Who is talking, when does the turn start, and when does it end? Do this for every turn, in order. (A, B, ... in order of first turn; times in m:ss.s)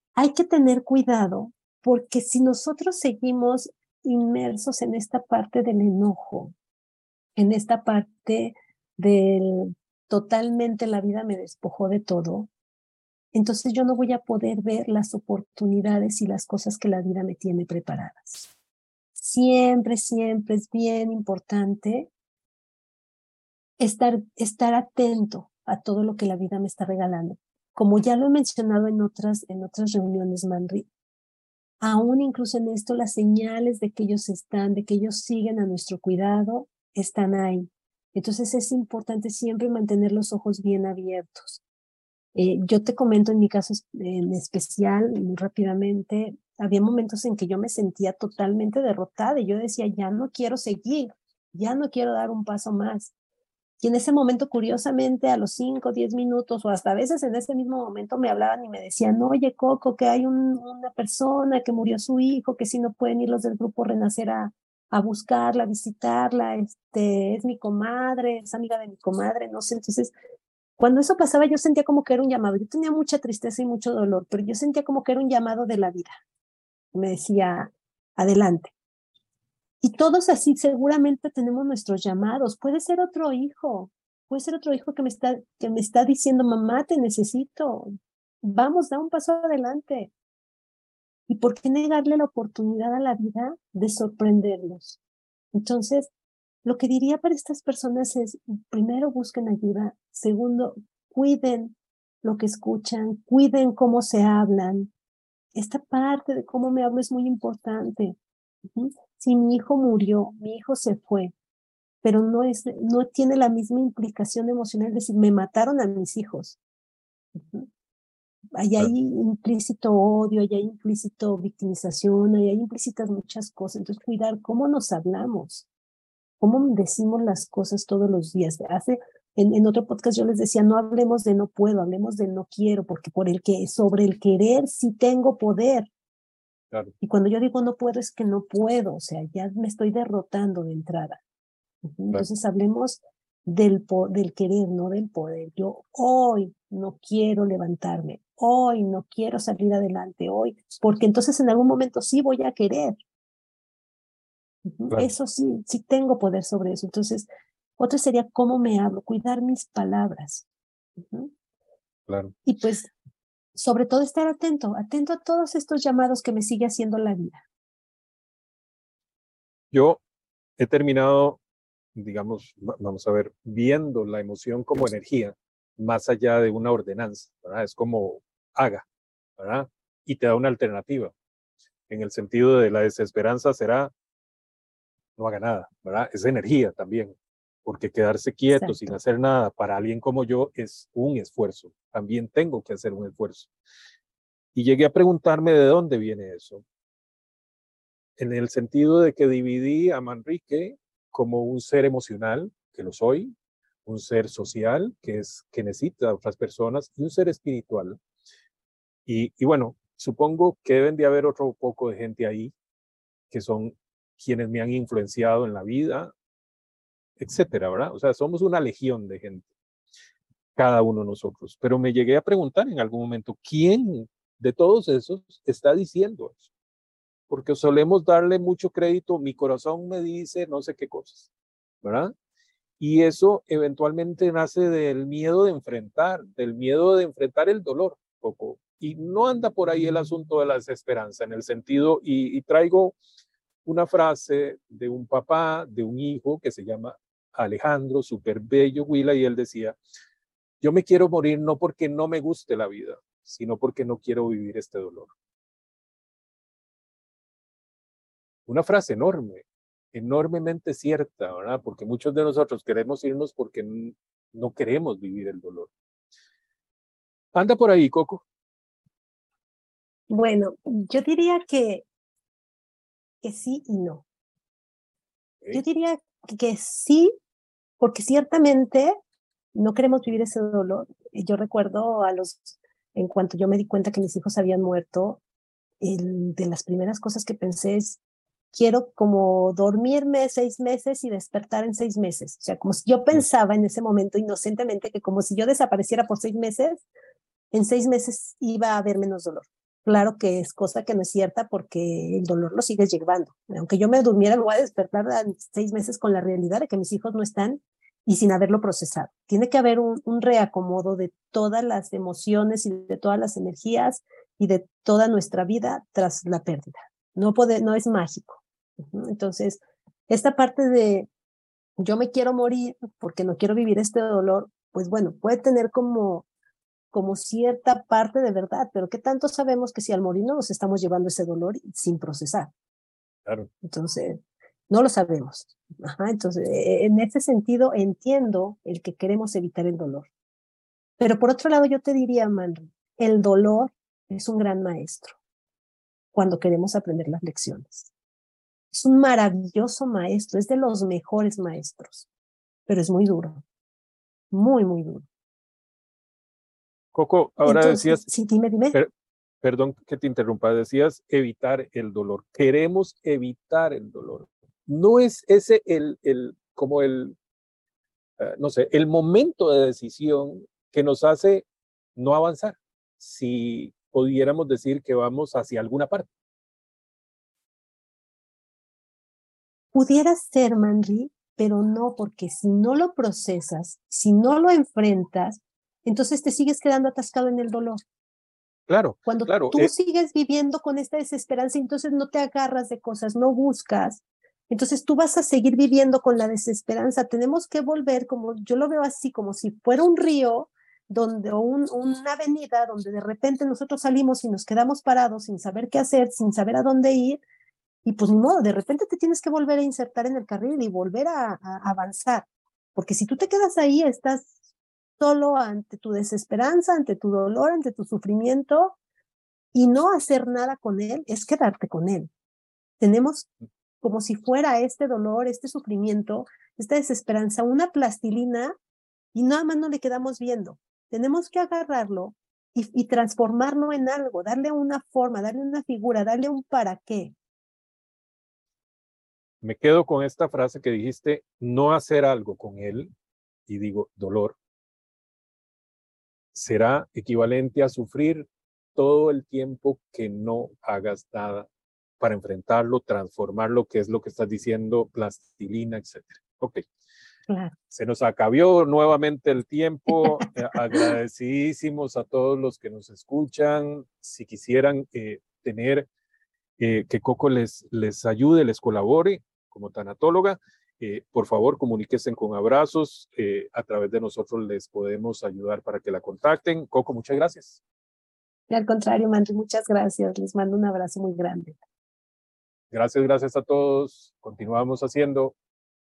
0:00.2-0:06.5 A
0:07.4-0:12.5 A
0:13.3-0:18.5 A
0:19.2-0:22.1 A
0:23.8-0:30.9 A
0:31.8-0:41.6 A
0:42.4-0:53.1 A
0:53.8-1:10.1 A
1:10.8-1:16.1 A
1:16.9-1:18.7 A
1:19.8-1:27.9 A
1:28.4-1:30.1 A
1:31.3-1:35.0 A
1:35.5-1:36.1 A
1:36.6-1:44.9 A
1:45.6-1:48.2 A
1:48.7-1:51.3 A
1:52.0-1:56.6 A
1:57.4-1:57.7 A
1:58.6-2:05.7 A
2:06.4-2:15.9 A
2:17.0-2:21.2 A
2:21.9-2:33.0 A
2:34.6-2:37.3 A
2:37.8-2:40.5 A
2:41.0-2:41.3 A
2:42.1-2:42.3 B
2:42.5-2:42.9 A
2:43.6-2:47.4 A
2:49.7-2:50.0 B
2:50.6-2:51.4 B
2:52.0-2:58.9 B
2:59.4-3:01.1 B
3:01.9-3:03.9 B
3:05.2-3:13.5 B
3:08.5-3:08.9 A
3:14.6-3:16.6 B
3:18.2-3:23.3 B
3:23.8-3:28.0 B
3:29.1-3:32.5 B
3:33.3-3:36.1 B
3:37.2-3:39.5 B
3:40.6-3:46.5 B
3:47.3-3:51.3 B
3:51.8-3:52.1 B
3:52.8-4:03.0 B
4:03.6-4:09.8 B
4:10.6-4:15.1 B
4:18.5-4:25.7 B
4:27.4-4:28.2 B
4:30.1-4:31.8 A
4:33.2-4:34.0 A
4:35.5-4:37.1 A
4:37.8-4:38.9 A
4:39.5-4:45.2 A
4:45.8-4:48.0 A
4:48.5-4:56.9 A
4:57.5-5:21.1 A
5:21.8-5:26.3 A
5:26.9-5:32.5 A
5:33.6-5:40.1 A
5:41.0-5:45.2 A
5:46.1-5:47.9 A
5:48.7-5:52.1 A
5:52.7-5:53.4 A
5:54.3-5:55.1 A
5:56.9-5:58.0 B
5:57.4-5:58.8 A
5:59.4-6:07.2 B
6:08.2-6:16.1 B
6:19.7-6:27.8 A
6:28.7-6:29.7 B
6:29.1-6:47.2 A
6:47.8-6:54.3 A
6:55.0-6:58.8 A
6:59.5-7:02.1 A
7:02.8-7:03.3 A
7:03.8-7:08.5 A
7:09.1-7:17.2 A
7:19.4-7:22.9 B
7:23.5-7:24.4 B
7:26.3-7:31.5 B
7:32.0-7:36.6 B
7:37.3-7:37.6 A
7:37.7-7:45.9 B
7:46.6-7:57.6 B
7:58.5-8:01.6 A
8:02.7-8:05.4 B